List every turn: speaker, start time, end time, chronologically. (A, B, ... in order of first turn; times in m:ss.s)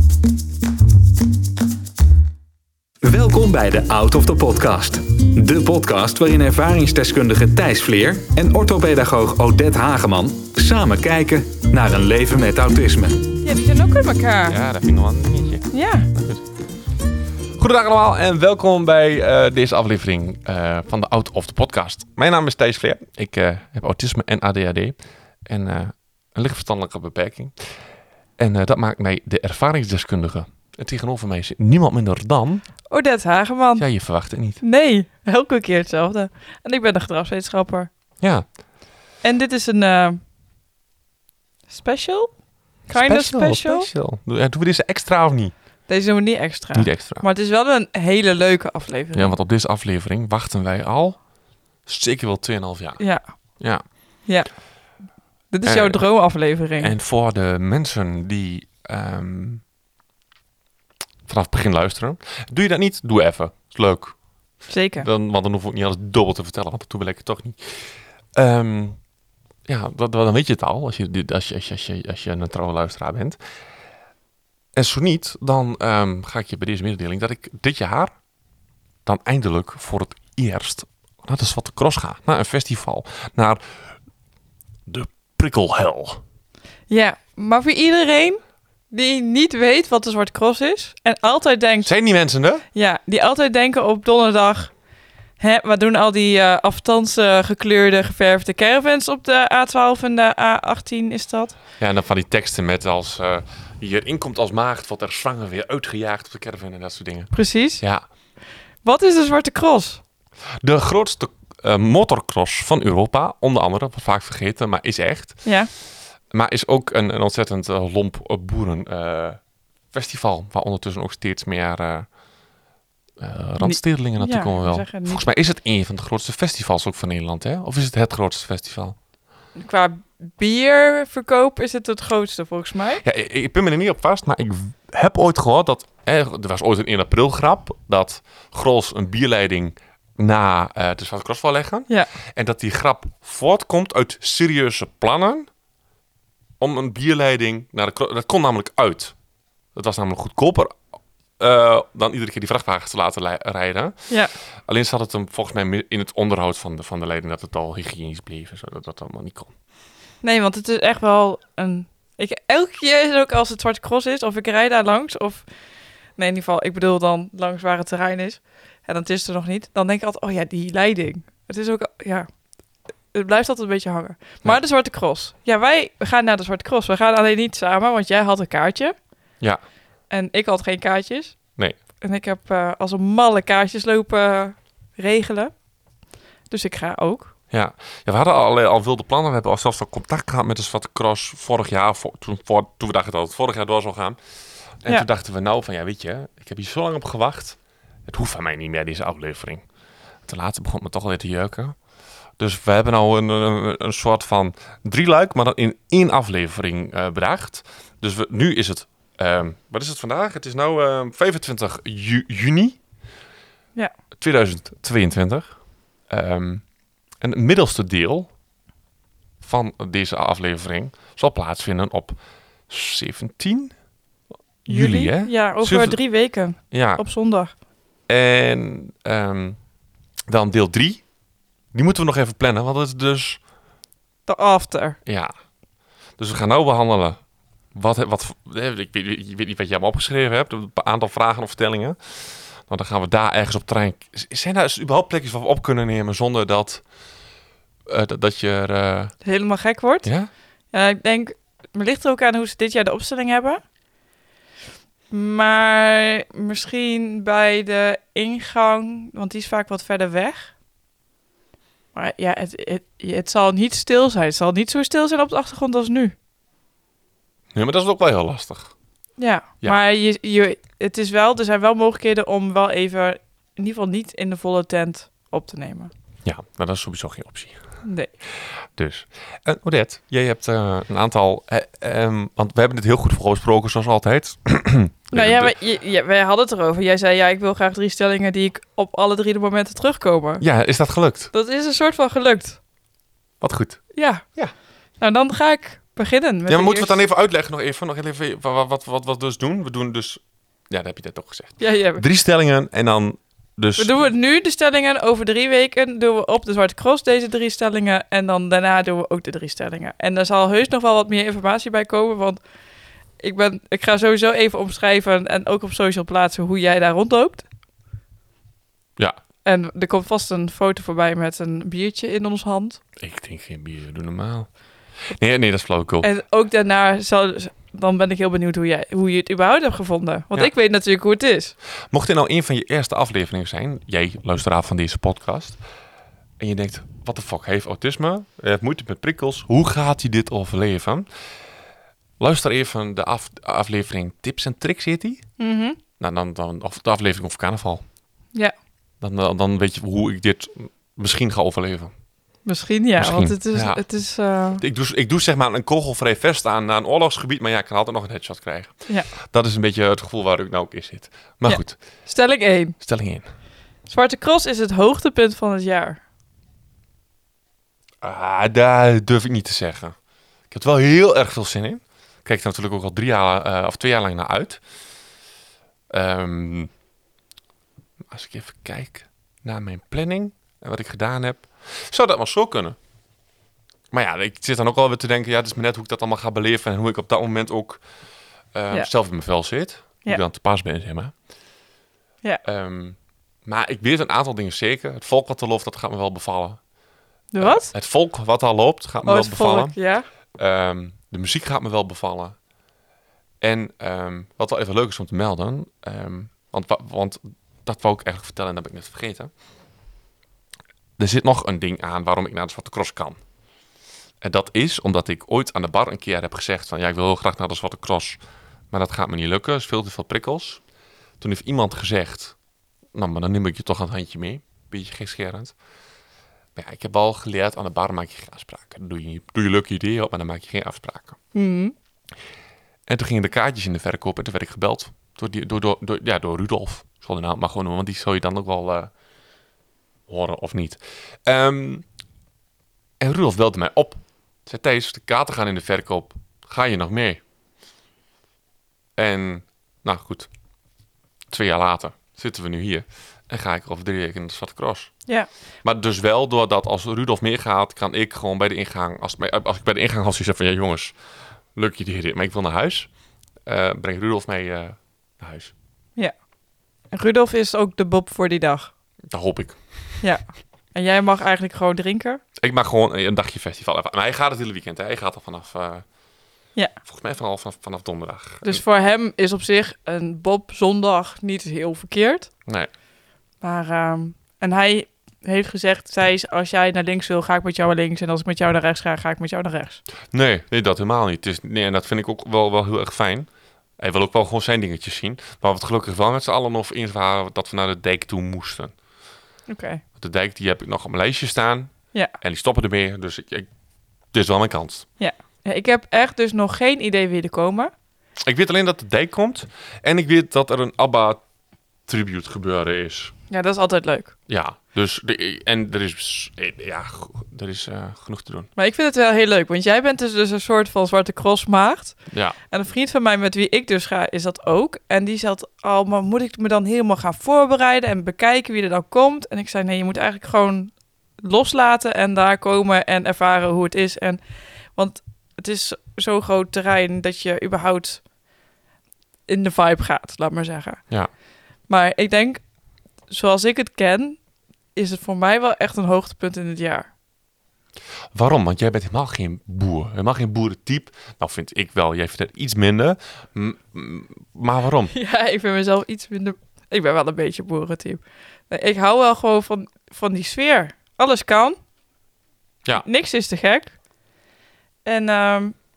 0:03.0-0:13.3 A
0:13.4-0:14.6 B
0:14.5-0:16.4 C
0:15.7-0:16.1 B
0:17.6-0:27.5 C
0:28.4-0:32.7 C
0:32.9-0:33.9 B
0:33.8-0:34.6 C
0:34.6-0:37.9 B
0:38.2-0:38.5 C
0:39.2-0:40.2 B
0:41.7-0:43.9 B
0:42.9-0:45.6 C
0:45.9-0:49.3 B
0:46.7-0:47.2 C
0:49.1-0:51.2 C
0:51.9-0:53.0 C
0:53.6-0:54.1 C
0:54.3-0:54.5 B
0:55.5-0:56.9 B
0:55.6-0:56.0 C
0:56.8-0:59.6 C
1:01.3-1:04.2 C
1:04.7-1:05.1 B
1:05.0-1:09.0 C
1:09.7-1:13.4 C
1:14.8-1:18.1 C
1:19.1-1:23.6 C
1:24.9-1:26.2 C
1:26.9-1:31.9 B
1:31.8-1:32.6 C
1:32.7-1:34.7 B
1:35.4-1:41.6 B
1:41.8-1:48.0 C
1:47.3-1:47.8 B
1:48.8-1:50.0 B
1:50.6-1:55.5 C
1:55.4-1:55.7 B
1:56.3-1:59.4 C
1:59.9-2:02.1 C
2:03.2-2:09.0 C
2:03.6-2:05.2 B
2:09.6-2:13.0 B
2:13.0-2:25.5 C
2:26.6-2:29.2 C
2:29.8-2:30.8 C
2:31.4-2:34.1 C
2:34.7-2:39.5 C
2:40.2-2:45.5 B
2:46.2-2:52.3 B
2:53.1-2:59.0 B
3:00.1-3:01.4 B
3:02.0-3:05.5 B
3:06.5-3:07.3 B
3:07.5-3:14.2 C
3:14.8-3:19.6 C
3:20.3-3:21.8 C
3:22.4-3:32.8 C
3:34.2-3:36.6 C
3:37.2-3:38.3 C
3:39.4-3:42.2 C
3:42.7-3:43.8 C
3:44.6-3:46.0 C
3:44.7-3:47.5 B
3:46.7-3:47.0 C
3:48.1-3:49.6 C
3:50.3-3:51.0 C
3:51.7-3:53.4 C
3:54.3-3:55.0 B
3:55.1-3:55.4 C
3:56.2-3:57.2 C
3:57.7-4:06.8 C
4:07.9-4:09.2 C
4:09.2-4:10.1 B
4:10.0-4:10.3 C
4:10.7-4:13.6 B
4:15.1-4:20.5 B
4:21.9-4:26.1 B
4:27.5-4:28.7 C
4:29.2-4:35.9 B
4:36.2-4:37.6 C
4:37.8-4:38.1 B
4:38.8-4:45.6 C
4:45.1-4:50.4 B
4:50.4-4:51.3 C
4:51.3-4:52.6 B
4:53.4-4:54.5 C
4:53.9-4:54.2 B
4:55.0-4:57.0 B
4:56.5-5:03.9 C
5:01.6-5:02.0 B
5:03.8-5:12.4 B
5:13.2-5:17.5 B
5:19.4-5:22.8 B
5:23.0-5:26.1 C
5:26.0-5:31.6 B
5:31.9-5:35.6 C
5:36.4-5:41.1 C
5:42.2-5:45.3 C
5:45.4-5:45.8 B
5:46.0-5:47.8 C
5:49.0-5:51.9 C
5:52.4-5:54.6 B
5:53.0-5:53.8 C
5:54.6-6:01.8 C
6:01.5-6:02.8 B
6:02.8-6:03.3 C
6:03.9-6:06.0 B
6:08.0-6:10.0 C
6:10.5-6:14.6 C
6:15.9-6:16.7 C
6:18.1-6:22.8 C
6:23.9-6:27.8 C
6:28.5-6:31.1 C
6:32.4-6:36.6 C
6:37.3-6:37.7 B
6:37.4-6:39.8 C
6:39.0-6:40.0 B
6:40.4-6:42.4 C
6:43.4-6:49.3 C
6:51.0-6:53.2 C
6:54.2-6:58.2 C
6:58.7-7:00.6 C
7:01.2-7:02.4 C
7:02.9-7:05.5 C
7:06.6-7:11.2 C
7:11.3-7:11.7 B
7:12.9-7:18.9 C
7:20.1-7:21.8 C
7:23.0-7:27.2 C
7:29.0-7:30.3 C
7:31.3-7:34.9 C
7:35.6-7:41.0 C
7:41.6-7:42.9 C
7:43.5-7:45.5 C
7:46.9-7:48.7 B
7:49.1-7:49.6 C
7:50.0-7:52.2 B
7:52.4-7:55.8 C
7:56.8-7:58.6 C
7:58.4-8:02.3 B
8:03.4-8:09.8 B
8:10.1-8:13.3 C
8:13.8-8:18.7 C
8:19.5-8:19.8 B
8:20.0-8:23.5 C
8:24.1-8:24.9 C
8:25.0-8:27.7 B
8:28.2-8:31.2 C
8:31.9-8:33.1 C
8:33.3-8:34.1 B
8:34.3-8:38.5 C
8:38.6-8:58.1 B
8:42.1-8:42.4 C
8:59.3-9:01.0 B
9:01.7-9:02.4 B
9:03.1-9:04.2 B
9:04.8-9:06.9 B
9:08.1-9:14.9 C
9:14.9-9:21.6 B
9:22.8-9:23.8 B
9:24.8-9:25.6 B